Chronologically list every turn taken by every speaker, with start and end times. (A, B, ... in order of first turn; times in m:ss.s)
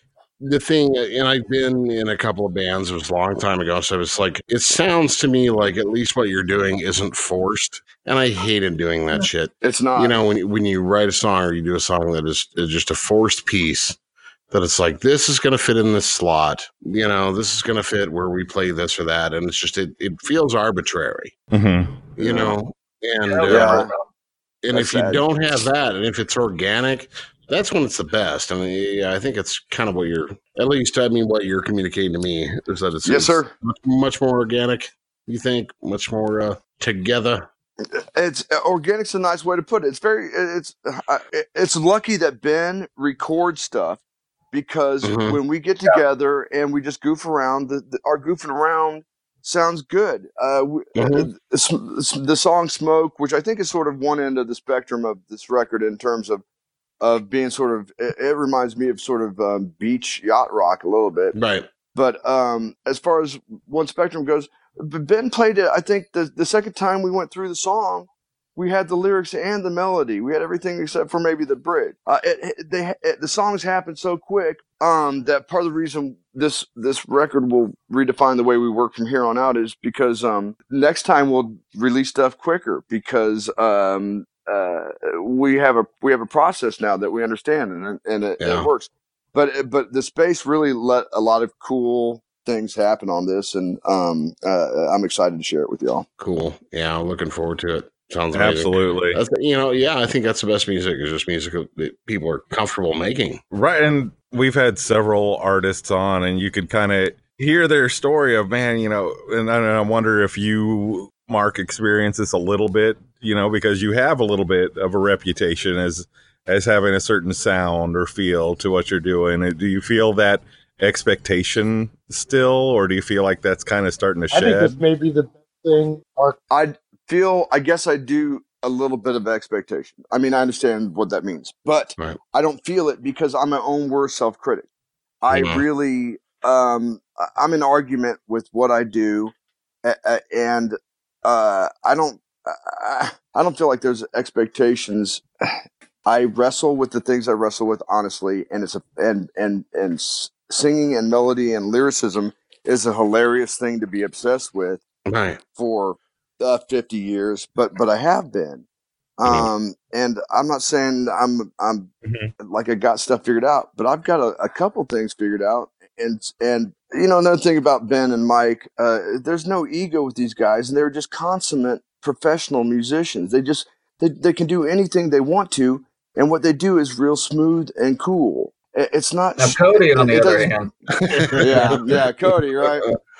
0:00.4-0:14.0 A
0:09.6-0:10.2 B
0:14.5-0:21.4 A
0:21.5-0:22.0 C
0:22.2-0:23.8 A
0:22.2-0:22.6 B
0:23.3-0:24.0 D
0:23.5-0:23.9 B
0:24.6-0:37.5 A
0:24.7-0:25.2 B
0:33.0-0:33.5 B
0:38.0-0:44.0 B
0:44.5-0:56.4 B
0:45.0-0:45.4 A
0:51.0-0:51.3 A
0:57.0-1:01.3 B
1:01.3-1:01.7 A
1:01.9-1:36.0 B
1:28.4-1:28.7 A
1:36.2-1:43.4 A
1:38.3-1:39.2 C
1:43.5-2:04.8 C
2:04.3-2:06.4 E
2:06.5-2:14.7 B
2:15.2-2:34.8 B
2:15.3-2:15.6 A
2:35.1-2:35.4 A
2:35.6-2:38.6 B
2:39.2-3:00.5 B
2:42.0-2:42.3 C
2:59.4-3:01.4 D
3:00.9-3:02.0 A
3:01.4-3:02.9 B